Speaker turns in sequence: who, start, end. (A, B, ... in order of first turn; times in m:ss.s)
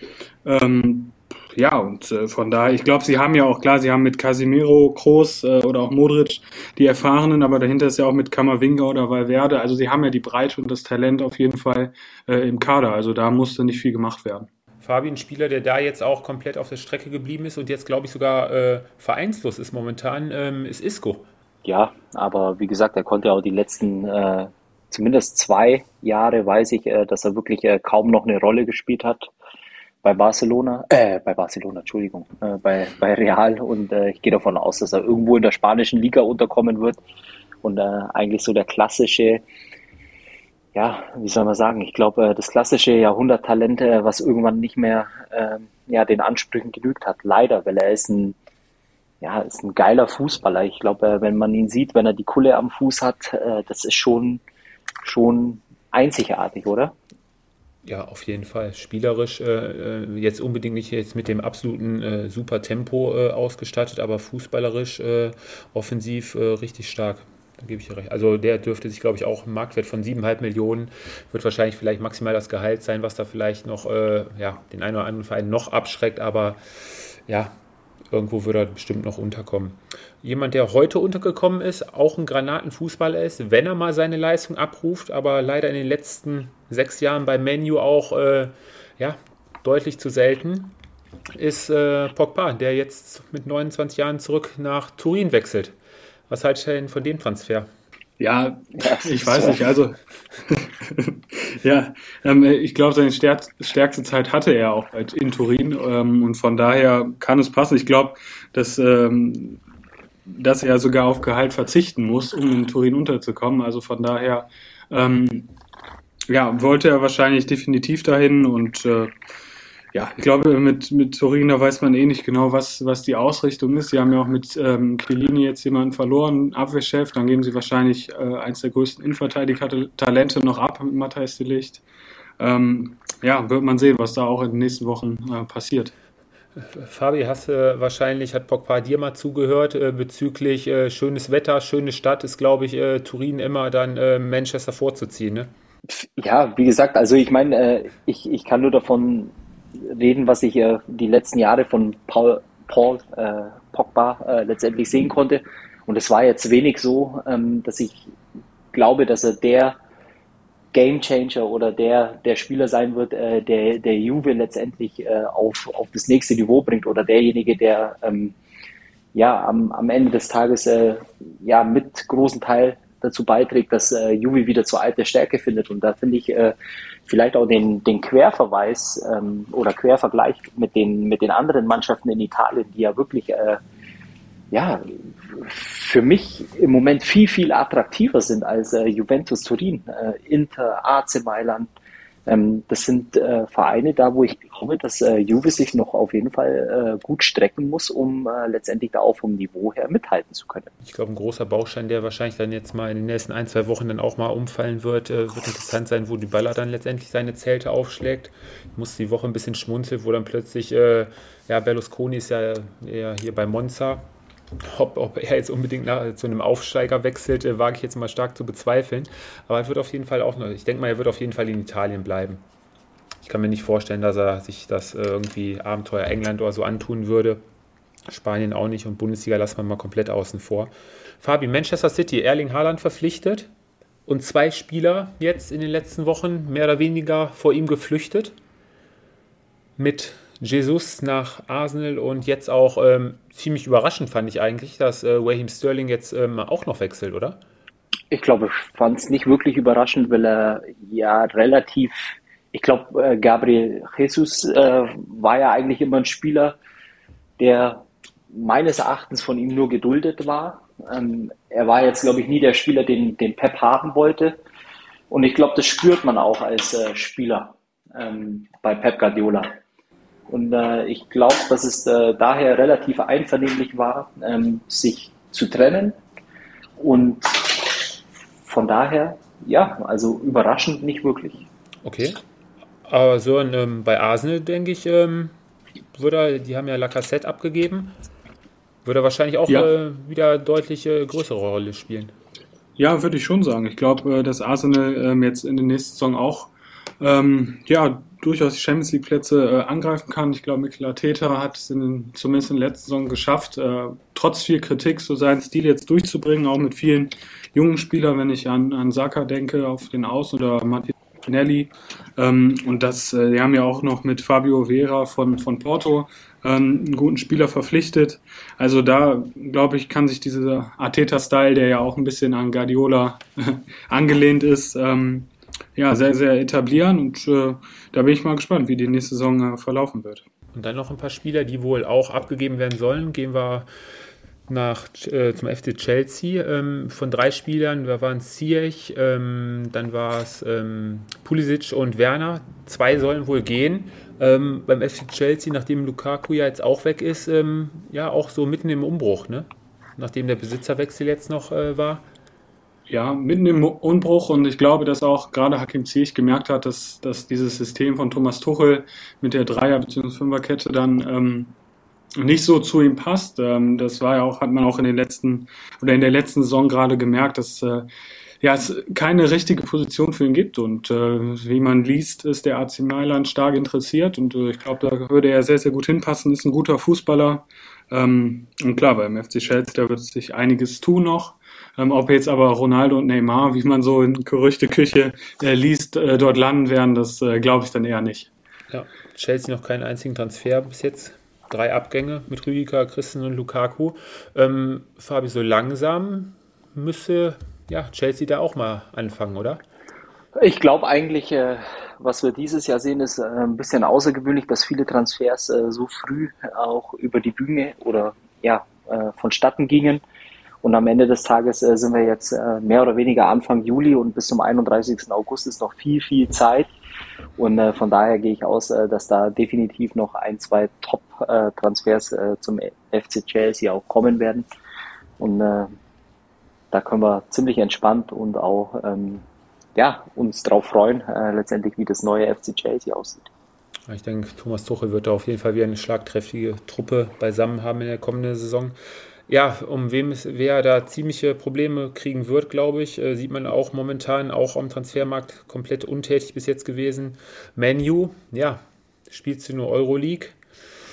0:00.4-0:14.5 A
0:14.8-0:21.2 B
0:21.6-0:29.3 C
0:30.0-0:37.0 C
0:37.6-0:39.4 C
0:40.7-0:48.4 C
0:49.2-0:54.4 C
0:55.0-0:56.9 C
0:57.8-1:17.5 B
1:18.1-1:30.7 B
1:31.4-1:35.7 B
1:36.3-1:37.7 B
1:38.2-1:49.6 A
1:38.8-1:39.6 C
1:50.2-1:55.5 A
1:56.3-1:59.1 A
1:59.9-2:11.8 A
2:12.4-2:15.9 A
2:16.6-2:25.5 B
2:25.9-2:38.1 C
2:38.7-2:39.8 C
2:40.7-2:48.3 C
2:49.1-2:56.5 C
2:57.1-3:03.6 C
3:04.5-3:11.7 C
3:12.2-3:20.7 C
3:20.8-3:34.1 B
3:34.6-3:42.4 B
3:43.2-3:47.4 B
3:48.1-3:53.5 B
3:54.1-3:58.3 B
3:59.8-4:07.4 B
4:08.1-4:16.6 C
4:17.4-4:24.4 C
4:25.1-4:29.5 C
4:30.3-4:36.0 C
4:36.8-4:37.9 C
4:38.4-4:41.4 C
4:41.8-4:42.2 B
4:42.8-4:45.3 B
4:45.9-4:47.9 B
4:48.8-4:52.1 B
4:49.5-4:49.7 A
4:52.8-5:30.2 A
5:30.5-5:33.7 B
5:34.5-5:52.0 B
5:52.9-6:01.5 A
6:02.2-6:07.9 A
6:08.4-6:28.3 A
6:28.7-6:39.6 B
6:40.4-6:50.0 C
6:50.6-6:56.7 C
6:57.4-7:04.4 C
7:05.2-7:05.7 C
7:06.7-7:09.2 C
7:09.8-7:13.3 C
7:13.9-7:18.8 B
7:19.3-7:30.4 B